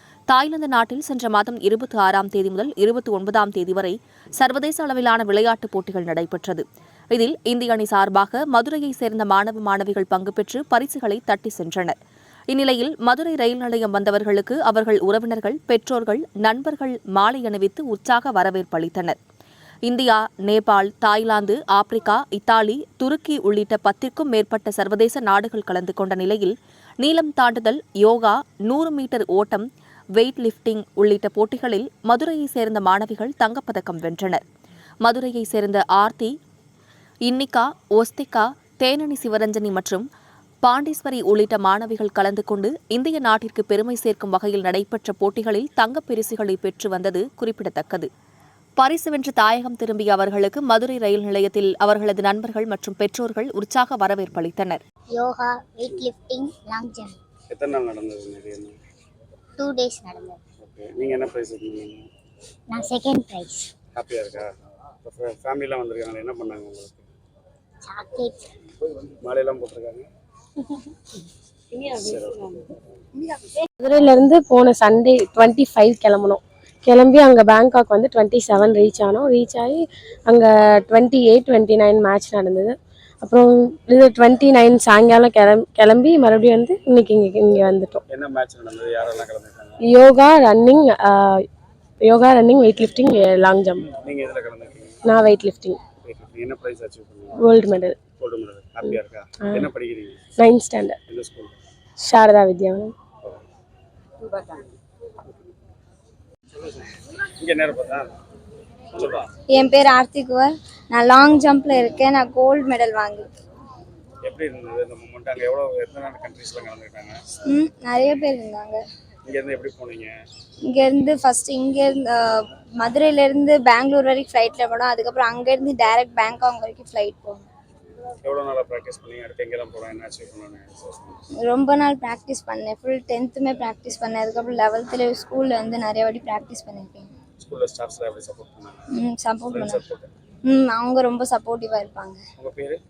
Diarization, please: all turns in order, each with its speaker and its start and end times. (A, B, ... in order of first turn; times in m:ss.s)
0:00.3-0:12.0 A
0:12.5-0:19.2 A
0:19.9-0:34.4 A
0:35.0-0:36.3 A
0:37.3-0:40.1 A
0:40.6-0:48.1 A
0:48.8-0:54.8 A
0:55.1-0:57.2 B
0:57.5-0:58.7 C
0:59.6-1:00.4 B
1:00.6-1:02.1 C
1:02.7-1:03.7 B
1:04.0-1:04.5 C
1:05.0-1:07.0 C
1:07.8-1:08.5 B
1:09.2-1:10.1 C
1:11.9-1:12.6 C
1:13.8-1:28.0 D
1:28.1-1:29.8 C
1:29.8-1:31.5 D
1:32.0-1:33.9 D
1:34.0-1:35.0 C
1:35.1-1:35.8 D
1:36.0-1:37.4 C
1:37.4-1:38.0 D
1:38.2-1:40.2 C
1:40.4-1:41.0 D
1:41.1-1:41.6 C
1:42.0-1:42.9 D
1:47.4-1:48.1 C
1:48.9-1:49.3 C
1:49.5-1:53.3 E
1:54.3-1:57.2 C
1:57.5-1:58.8 E
1:59.3-2:00.1 C
2:00.7-2:07.5 E
2:08.2-2:11.2 C
2:11.5-2:17.1 E
2:17.4-2:18.8 C
2:19.0-2:19.8 E
2:19.5-2:20.1 C
2:20.5-2:22.2 E
2:22.4-2:22.8 C